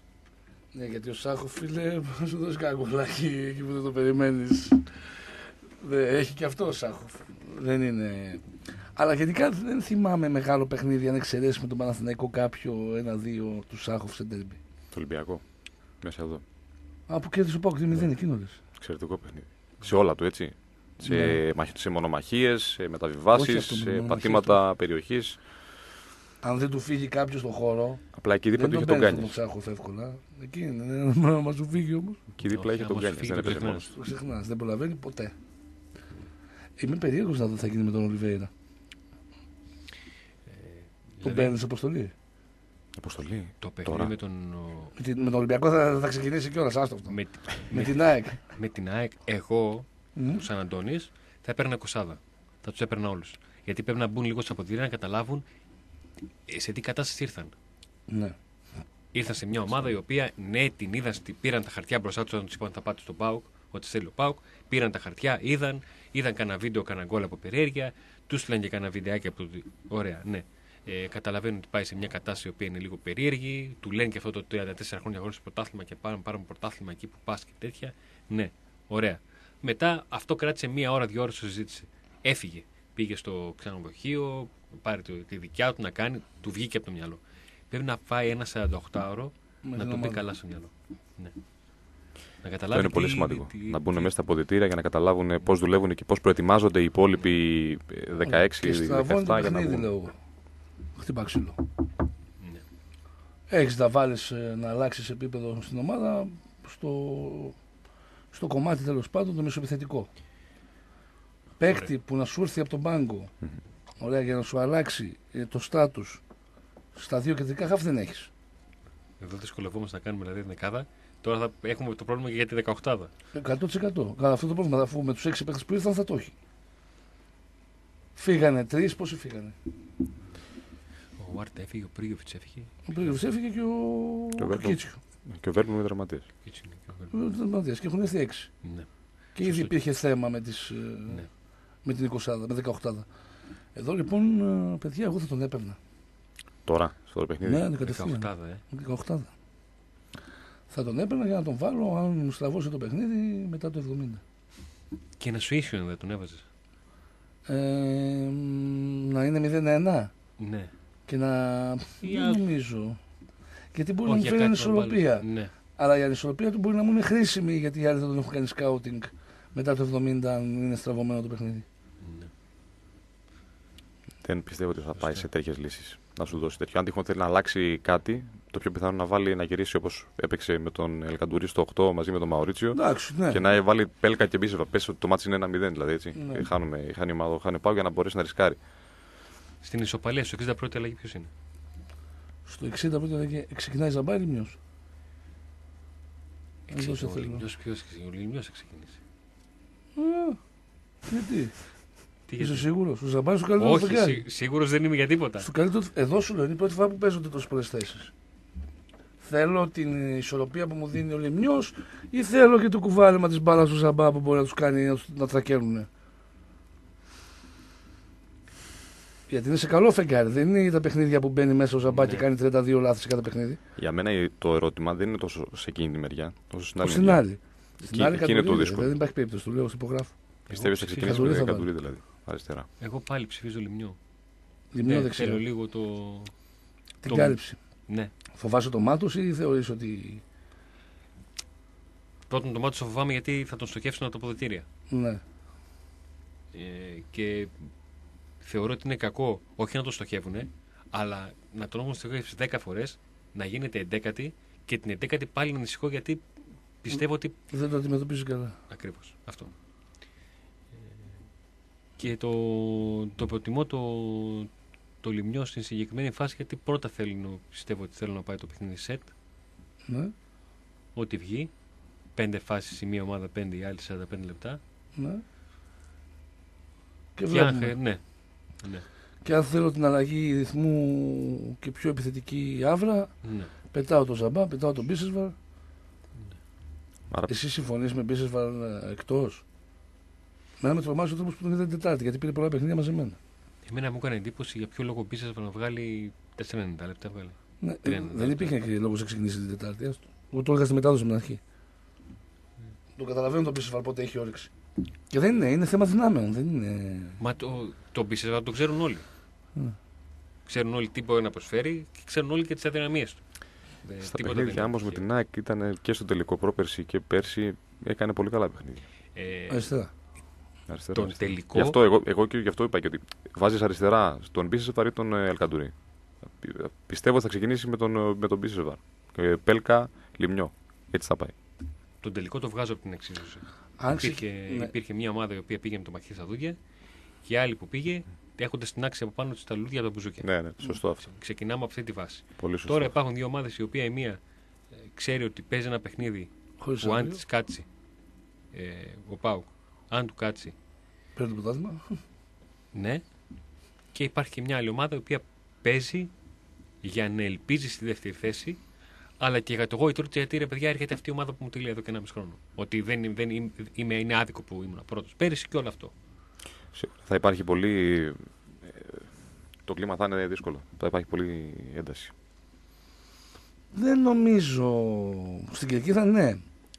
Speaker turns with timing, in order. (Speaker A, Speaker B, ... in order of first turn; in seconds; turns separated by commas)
Speaker A: 0.7-8.4, Speaker A: 8.9-14.6, Speaker B: 14.9-15.4, Speaker B: 16.0-16.4, Speaker A: 17.1-18.6, Speaker B: 18.8-25.4, Speaker A: 21.0-21.4, Speaker A: 23.3-24.6, Speaker A: 26.4-32.2, Speaker B: 28.1-29.3, Speaker B: 32.4-33.9, Speaker C: 32.5-33.9, Speaker A: 33.9-35.3, Speaker A: 36.8-38.5, Speaker C: 40.5-41.5, Speaker A: 41.2-42.1, Speaker B: 43.0-44.1, Speaker C: 43.6-44.9, Speaker A: 45.0-47.2, Speaker C: 47.1-55.4, Speaker A: 47.7-48.4, Speaker A: 50.1-50.4, Speaker C: 56.5-57.5, Speaker A: 58.1-58.3, Speaker C: 59.1-91.4, Speaker A: 89.6-90.2, Speaker C: 92.4-94.1, Speaker B: 92.7-99.9, Speaker A: 98.2-100.2, Speaker A: 101.0-101.6, Speaker A: 103.5-107.5, Speaker A: 108.3-110.1, Speaker A: 111.6-113.3, Speaker A: 114.0-116.2, Speaker A: 116.9-118.3, Speaker C: 119.2-123.1, Speaker A: 123.3-126.3, Speaker A: 128.2-129.6, Speaker C: 131.2-133.2, Speaker A: 132.9-135.0, Speaker B: 134.4-136.2, Speaker C: 136.4-137.2, Speaker A: 137.1-138.5, Speaker C: 138.6-139.7, Speaker A: 139.3-141.2, Speaker A: 141.8-143.1, Speaker A: 143.7-145.8, Speaker B: 146.7-147.7, Speaker A: 147.4-149.3, Speaker C: 147.8-148.6, Speaker A: 150.7-154.2, Speaker C: 155.2-156.4, Speaker A: 157.5-160.1, Speaker C: 160.4-160.7, Speaker A: 161.1-163.0, Speaker C: 162.0-162.5, Speaker A: 163.7-171.6, Speaker C: 164.1-165.5, Speaker C: 172.0-172.3, Speaker B: 174.2-188.6, Speaker C: 175.0-175.3, Speaker A: 182.7-183.4, Speaker A: 186.1-186.4, Speaker C: 189.6-191.3, Speaker A: 192.4-194.6, Speaker C: 196.7-199.0, Speaker A: 196.7-197.4, Speaker A: 199.9-200.4, Speaker A: 201.1-201.6, Speaker C: 202.3-202.7, Speaker A: 202.4-204.2, Speaker C: 203.6-205.5, Speaker A: 205.4-208.1, Speaker A: 209.2-215.9, Speaker A: 219.3-223.6, Speaker C: 221.8-222.3, Speaker B: 223.8-227.2, Speaker A: 226.8-230.1, Speaker B: 227.8-229.0, Speaker B: 230.5-232.7, Speaker C: 230.5-231.4, Speaker A: 231.0-231.7, Speaker C: 232.8-234.0, Speaker A: 234.7-235.4, Speaker C: 234.8-236.3, Speaker A: 237.0-237.6, Speaker C: 237.1-238.1, Speaker A: 238.3-240.2, Speaker C: 242.3-244.7, Speaker A: 244.9-245.2, Speaker C: 246.5-247.5, Speaker C: 248.4-256.2, Speaker C: 256.8-257.4, Speaker A: 257.5-258.6, Speaker C: 258.7-259.5, Speaker C: 262.0-264.5, Speaker C: 265.0-269.1, Speaker A: 269.9-270.1, Speaker C: 270.9-271.5, Speaker C: 272.1-274.6, Speaker A: 274.9-275.2, Speaker A: 277.1-277.7, Speaker C: 277.3-278.9, Speaker A: 279.2-283.1, Speaker C: 283.2-283.5, Speaker A: 283.7-285.3, Speaker A: 287.3-289.4, Speaker A: 290.6-293.2, Speaker C: 293.6-298.5, Speaker A: 297.6-301.4, Speaker A: 302.9-304.5, Speaker A: 305.1-307.2, Speaker C: 307.2-309.1, Speaker C: 310.4-313.2, Speaker C: 313.8-315.0, Speaker B: 314.0-318.8, Speaker C: 319.1-319.7, Speaker A: 319.5-319.9, Speaker B: 320.7-325.7, Speaker C: 320.9-321.8, Speaker B: 326.3-331.3, Speaker C: 332.0-336.6, Speaker A: 333.8-334.7, Speaker C: 337.2-344.2, Speaker B: 340.2-341.0, Speaker B: 342.4-342.9, Speaker C: 344.8-347.6, Speaker A: 346.6-347.2, Speaker C: 348.5-350.5, Speaker A: 351.1-352.0, Speaker C: 352.7-353.0, Speaker C: 353.9-356.1, Speaker C: 356.8-358.6, Speaker C: 359.2-365.9, Speaker B: 366.7-369.1, Speaker B: 369.6-372.1, Speaker A: 373.7-376.4